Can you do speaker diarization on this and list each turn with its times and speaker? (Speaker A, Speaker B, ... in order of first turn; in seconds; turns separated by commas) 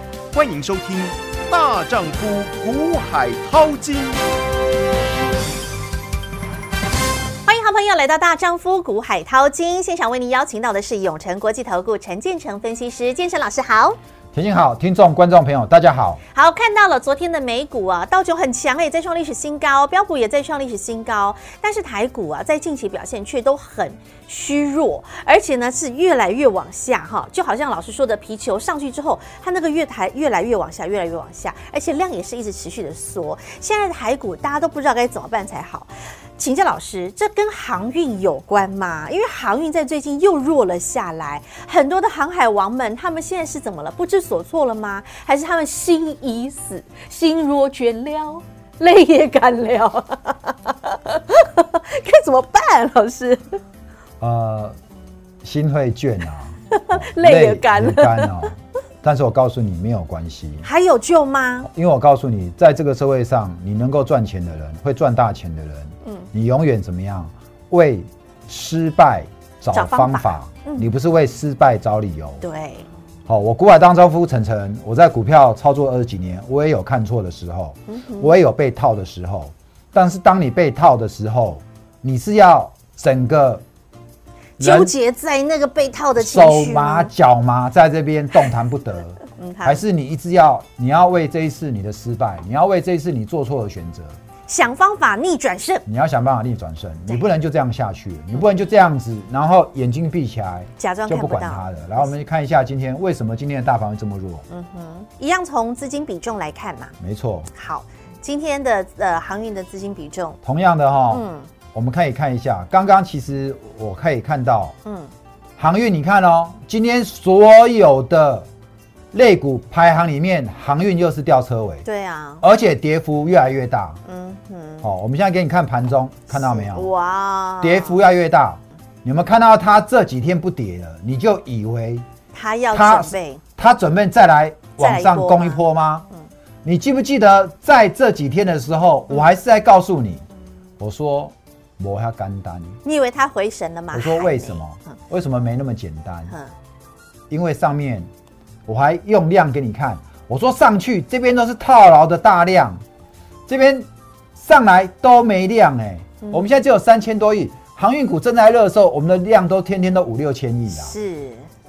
Speaker A: 0.3-4.2, Speaker B: 7.5-14.0, Speaker C: 14.3-16.2, Speaker B: 16.3-53.6, Speaker C: 54.2-54.8, Speaker C: 55.4-60.7, Speaker B: 56.7-58.5, Speaker B: 60.6-61.7, Speaker C: 61.6-72.4, Speaker B: 69.7-70.9, Speaker B: 72.4-72.9, Speaker C: 73.3-83.6, Speaker B: 77.9-78.3, Speaker B: 84.6-87.1, Speaker C: 84.6-84.9, Speaker C: 86.2-94.2, Speaker B: 89.3-89.8, Speaker B: 94.5-95.8, Speaker C: 95.9-104.4, Speaker B: 100.8-101.7, Speaker B: 104.5-107.0, Speaker C: 107.0-107.5, Speaker B: 107.5-110.4, Speaker C: 110.4-114.8, Speaker B: 111.1-111.5, Speaker B: 114.8-115.1, Speaker C: 115.6-118.5, Speaker C: 119.1-121.8, Speaker B: 121.8-122.4, Speaker C: 122.4-124.0, Speaker B: 124.1-124.9, Speaker C: 124.8-126.9, Speaker B: 126.3-128.0, Speaker C: 127.6-132.1, Speaker B: 132.3-133.4, Speaker C: 132.7-136.1, Speaker B: 134.8-135.6, Speaker C: 136.6-140.2, Speaker C: 140.8-142.8, Speaker B: 142.8-145.0, Speaker C: 143.9-146.3, Speaker C: 147.3-148.1, Speaker C: 148.7-152.8, Speaker C: 153.5-160.9, Speaker B: 156.2-156.5, Speaker B: 160.7-161.5